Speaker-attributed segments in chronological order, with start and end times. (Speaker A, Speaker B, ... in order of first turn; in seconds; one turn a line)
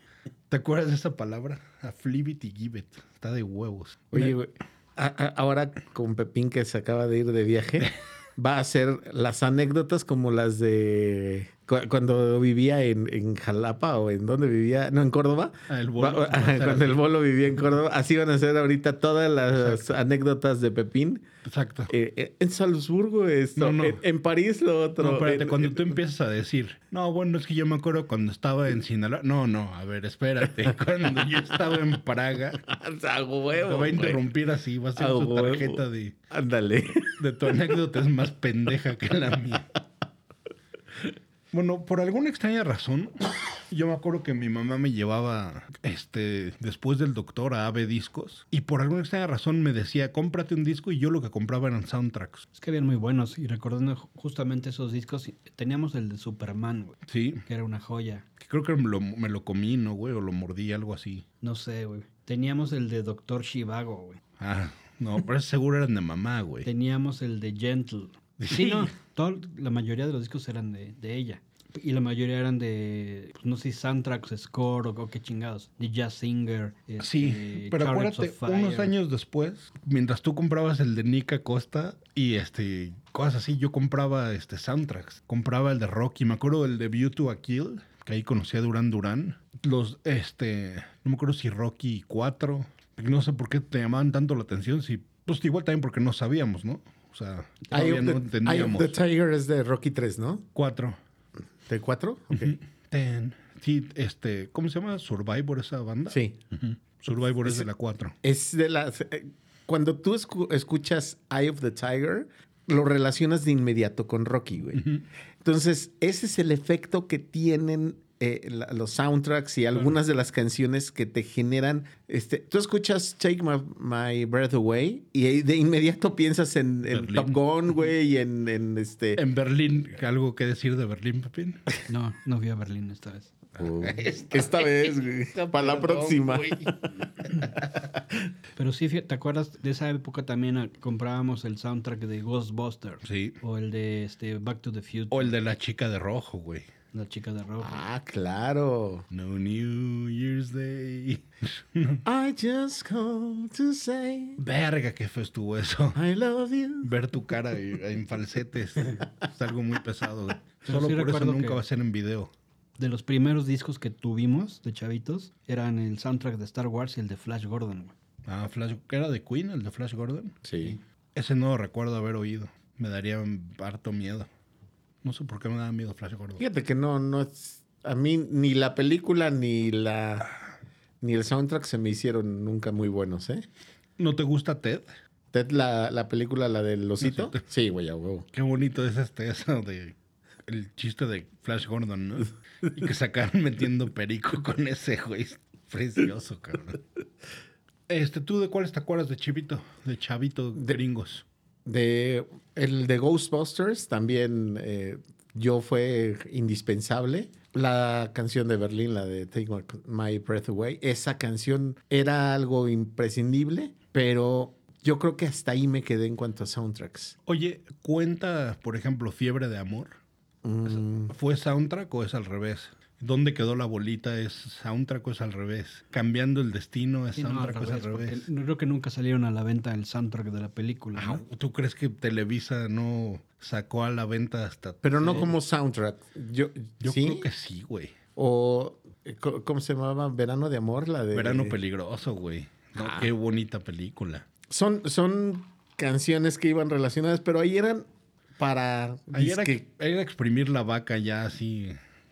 Speaker A: 0.5-4.3
Speaker B: 4.1-21.2
Speaker A: 15.7-17.0
Speaker A: 19.6-19.9
Speaker A: 21.5-21.9
Speaker B: 21.9-26.0
Speaker A: 23.6-24.0
Speaker A: 25.0-32.6
Speaker B: 31.2-31.7
Speaker B: 32.6-34.2
Speaker A: 33.5-36.1
Speaker B: 35.0-37.5
Speaker A: 37.0-39.8
Speaker A: 41.5-52.5
Speaker C: 52.5-58.3
Speaker A: 57.1-57.4
Speaker A: 58.4-61.2
Speaker C: 61.4-64.2
Speaker A: 64.4-66.7
Speaker C: 66.6-78.9
Speaker A: 68.4-68.9
Speaker A: 77.0-99.0
Speaker B: 97.7-100.5
Speaker A: 100.5-101.0
Speaker B: 101.7-102.5
Speaker A: 102.3-108.2
Speaker B: 106.1-106.4
Speaker B: 108.2-114.8
Speaker A: 114.8-115.0
Speaker B: 115.4-129.2
Speaker A: 126.9-127.4
Speaker A: 129.2-131.7
Speaker C: 131.9-133.3
Speaker A: 133.6-137.5
Speaker B: 133.6-136.9
Speaker B: 137.4-138.2
Speaker C: 138.6-145.3
Speaker A: 143.1-143.4
Speaker A: 145.1-146.7
Speaker C: 146.9-147.8
Speaker B: 147.6-149.1
Speaker A: 149.1-152.0
Speaker B: 152.1-154.4
Speaker A: 154.4-156.0
Speaker B: 155.9-157.4
Speaker A: 156.8-162.3
Speaker C: 160.7-161.6
Speaker C: 162.8-167.9
Speaker A: 168.2-170.4
Speaker B: 170.4-170.8
Speaker A: 171.2-174.3
Speaker A: 175.0-176.4
Speaker B: 176.4-180.3
Speaker B: 181.0-183.5
Speaker A: 184.0-184.8
Speaker B: 185.3-188.3
Speaker A: 187.0-187.4
Speaker A: 188.3-189.9
Speaker A: 190.5-196.8
Speaker A: 197.9-201.2
Speaker B: 201.7-217.2
Speaker A: 217.3-220.0
Speaker B: 220.4-221.2
Speaker A: 220.7-228.3
Speaker C: 227.2-231.2
Speaker A: 231.0-235.3
Speaker B: 234.8-237.2
Speaker C: 235.0-235.2
Speaker A: 236.8-237.9
Speaker B: 238.2-241.6
Speaker A: 241.1-244.3
Speaker B: 242.8-243.1
Speaker B: 244.5-249.6
Speaker A: 249.1-251.8